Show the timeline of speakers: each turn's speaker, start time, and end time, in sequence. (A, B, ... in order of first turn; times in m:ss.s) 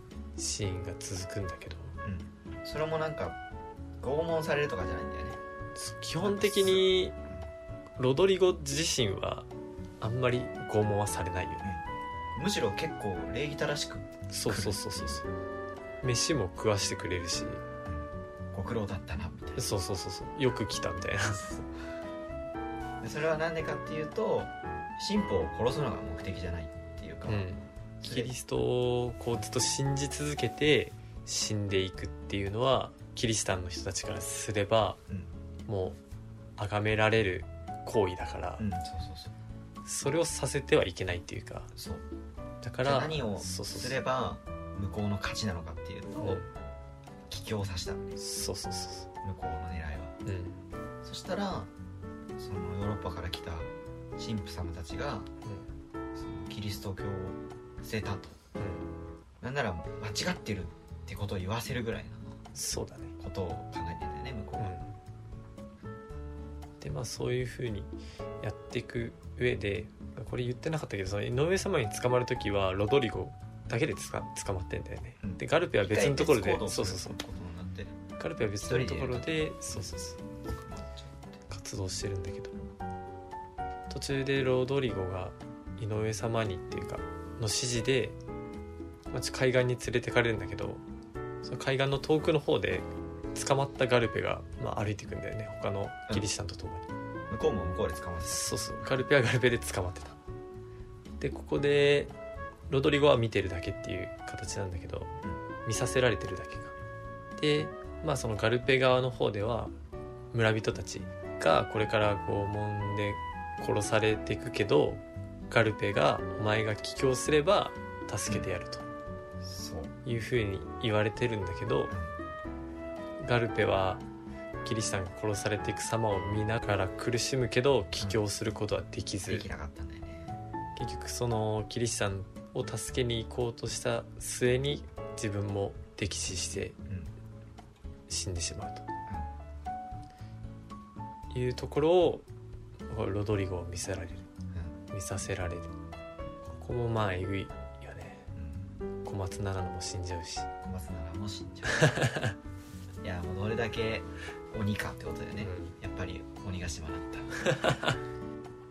0:00.4-0:01.9 A
0:02.0-0:03.4 B
0:04.0-0:05.4 B
0:05.8-0:07.2 A
0:06.2-0:07.4 B
0:08.0-0:09.5 A
0:10.0-0:11.7 A
0:12.3-0:15.2 B
0:14.3-0:15.2 A
0:16.0-0:17.6 A
0:17.8-0:19.7 B
0:19.6-0:21.4 A
0:21.3-0:21.7 B
0:23.0-0:27.4 B
0:27.3-0:35.0 A
0:28.0-0:28.3 B
0:35.7-0:36.0 A
0:36.6-0:38.7 A
0:38.6-0:39.3 B
0:39.8-0:41.7 A
0:41.7-0:42.0 B
0:42.6-0:44.0 A
0:42.8-0:46.4 B
0:46.2-0:46.4 A
0:47.3-0:48.1 B
0:48.2-0:49.1 A
0:49.2-0:50.1 B
0:50.2-0:50.6 A
0:51.0-0:51.7 B
0:52.4-0:55.3 B
0:56.1-0:58.4 B
0:58.6-0:58.9 A
0:59.4-1:02.4 B
1:02.5-1:03.1 A
1:03.2-1:04.8 B
1:04.6-1:04.9 A
1:06.8-1:17.2 A
1:15.2-1:17.9 B
1:18.2-1:20.2 A
1:18.6-1:19.8 B
1:20.4-1:21.3 B
1:21.5-1:22.6 A
1:23.9-1:28.2 A
1:29.1-1:30.8 A
1:31.4-1:36.8 A
1:37.3-1:38.4 B
1:38.3-1:40.2 A
1:41.2-1:42.1 A
1:42.7-1:46.7 A
1:47.4-1:49.7 A
1:50.3-1:58.8 A
1:59.4-1:59.9 B
2:00.0-2:01.9 A
2:03.2-2:04.0 A
2:04.6-2:09.4 A
2:09.3-2:10.3 B
2:10.8-2:16.8 A
2:18.1-2:18.9 A
2:21.3-2:22.2 A
2:22.9-2:24.3 A
2:24.9-2:25.7 A
2:26.5-2:28.3 A
2:28.3-2:28.7 B
2:29.0-2:30.5 A
2:30.6-2:31.9 B
2:31.7-2:32.4 A
2:33.0-2:37.4 B
2:35.4-2:35.7 A
2:37.4-2:38.0 A